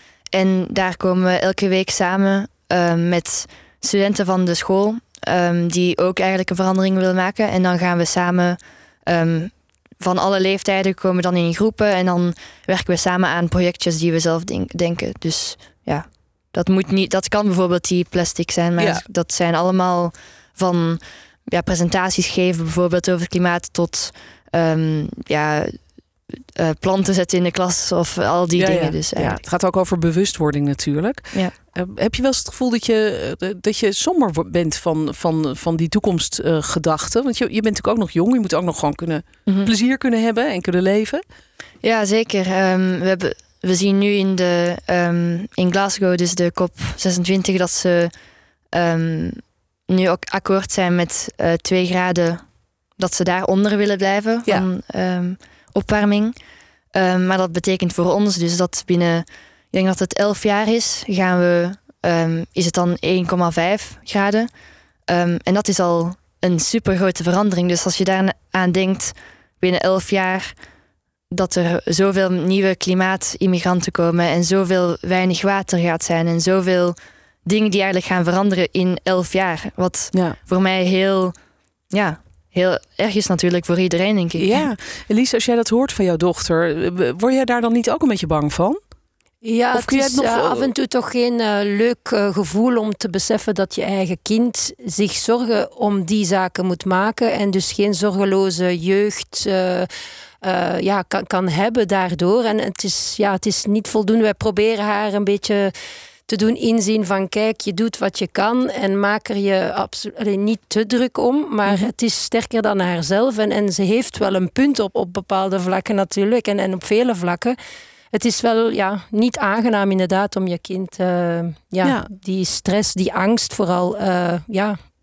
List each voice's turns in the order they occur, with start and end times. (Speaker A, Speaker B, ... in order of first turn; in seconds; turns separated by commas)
Speaker A: 0.3-25.8, Speaker B: 18.8-19.0, Speaker A: 26.5-29.4, Speaker B: 28.5-41.2, Speaker A: 41.8-48.1, Speaker A: 48.7-52.4, Speaker A: 53.0-56.3, Speaker A: 56.9-64.5, Speaker A: 65.1-70.5, Speaker A: 71.3-81.3, Speaker A: 81.9-84.6, Speaker B: 84.4-88.8, Speaker C: 89.4-99.9, Speaker B: 89.7-90.7, Speaker C: 100.4-105.7, Speaker C: 106.3-117.6, Speaker C: 118.1-124.8